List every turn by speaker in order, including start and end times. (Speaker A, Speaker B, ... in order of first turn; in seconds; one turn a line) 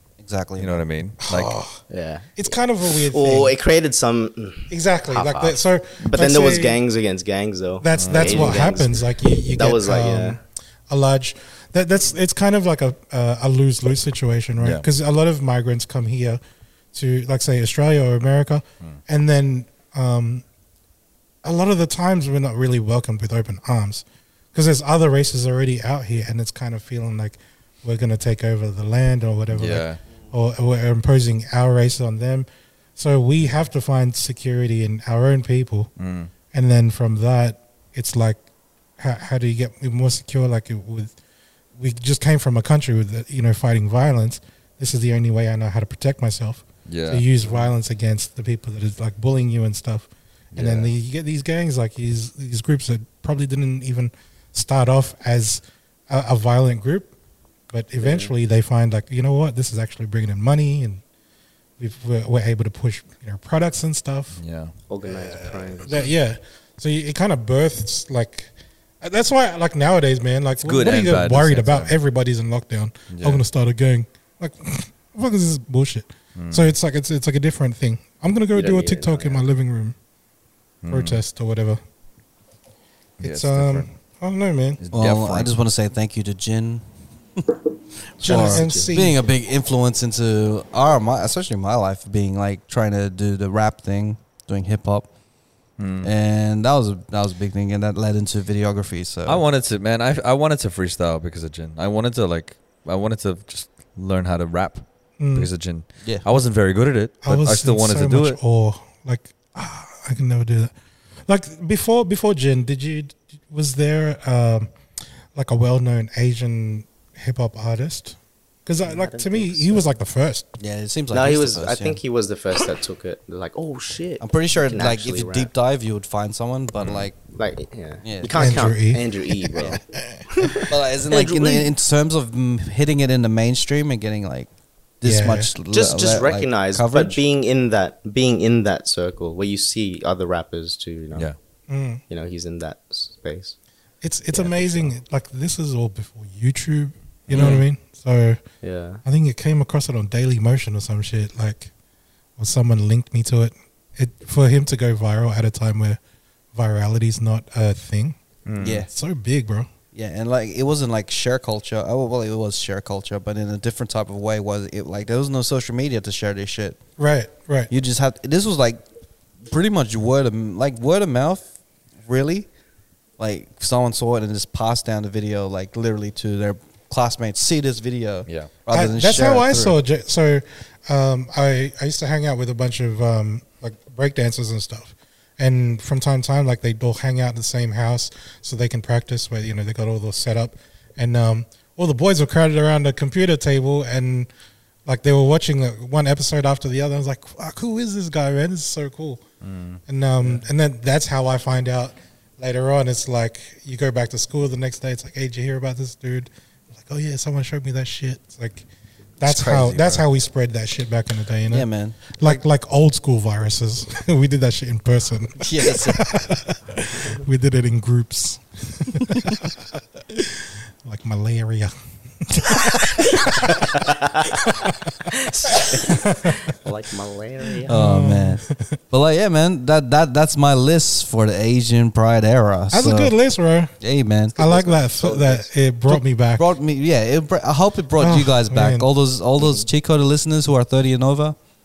Speaker A: 0.2-0.8
Speaker B: 0.6-1.5
Speaker C: 1.2-1.8
Speaker D: 1.9-10.4
Speaker C: 2.4-3.5
Speaker C: 4.7-6.8
Speaker C: 7.8-16.4
Speaker B: 8.0-8.6
Speaker B: 14.6-14.9
Speaker C: 16.9-20.4
Speaker C: 21.4-35.9
Speaker B: 29.5-30.0
Speaker B: 36.0-36.3
Speaker C: 36.5-38.4
Speaker C: 39.0-41.1
Speaker C: 41.8-57.1
Speaker B: 46.9-47.2
Speaker B: 50.5-50.9
Speaker C: 57.7-61.0
Speaker D: 58.0-58.3
Speaker C: 61.8-64.4
Speaker B: 64.4-64.7
Speaker D: 64.9-66.1
Speaker C: 65.0-68.5
Speaker C: 69.0-79.9
Speaker B: 70.6-72.0
Speaker B: 73.1-73.4
Speaker B: 76.3-76.8
Speaker D: 78.5-79.4
Speaker B: 80.8-81.2
Speaker C: 80.9-81.8
Speaker B: 83.2-83.9
Speaker C: 83.2-84.8
Speaker B: 84.8-85.5
Speaker A: 84.9-86.8
Speaker A: 88.2-95.1
Speaker C: 88.2-89.2
Speaker D: 88.3-88.9
Speaker B: 95.8-96.1
Speaker A: 96.0-99.4
Speaker B: 99.2-108.4
Speaker C: 105.2-105.5
Speaker C: 107.2-110.7
Speaker C: 111.3-114.7
Speaker C: 115.3-120.5
Speaker D: 118.8-119.9
Speaker A: 120.6-122.0
Speaker D: 121.1-125.5
Speaker A: 124.2-127.1
Speaker B: 126.8-127.1
Speaker D: 127.3-129.8
Speaker A: 128.0-128.5
Speaker C: 128.4-130.2
Speaker D: 130.3-131.7
Speaker A: 130.7-134.5
Speaker A: 135.0-137.2
Speaker C: 135.0-135.5
Speaker D: 135.7-141.3
Speaker C: 141.7-142.0
Speaker D: 142.1-143.6
Speaker C: 144.0-148.4
Speaker D: 144.3-144.9
Speaker B: 147.3-147.6
Speaker D: 147.3-147.6
Speaker D: 148.6-149.0
Speaker C: 149.0-151.7
Speaker C: 152.4-156.0
Speaker C: 156.5-158.2
Speaker B: 158.4-158.8
Speaker A: 158.6-158.9
Speaker C: 158.9-159.7
Speaker A: 159.9-166.8
Speaker C: 167.0-167.7
Speaker A: 167.7-168.8
Speaker A: 169.5-171.5
Speaker A: 172.1-172.5
Speaker A: 173.2-179.8
Speaker C: 178.7-194.3
Speaker C: 194.8-199.2
Speaker B: 199.4-199.8
Speaker C: 199.9-208.6
Speaker C: 209.2-219.6
Speaker A: 209.2-210.0
Speaker A: 211.5-212.4
Speaker A: 215.4-216.0
Speaker C: 220.1-221.7
Speaker C: 222.2-223.9
Speaker D: 223.8-224.3
Speaker C: 224.4-224.7
Speaker D: 225.1-227.7
Speaker C: 225.6-226.3
Speaker C: 227.6-228.8
Speaker A: 227.7-233.1
Speaker C: 232.7-233.7
Speaker A: 233.8-234.4
Speaker C: 234.4-236.5
Speaker D: 234.4-235.5
Speaker A: 235.9-241.3
Speaker C: 238.0-238.9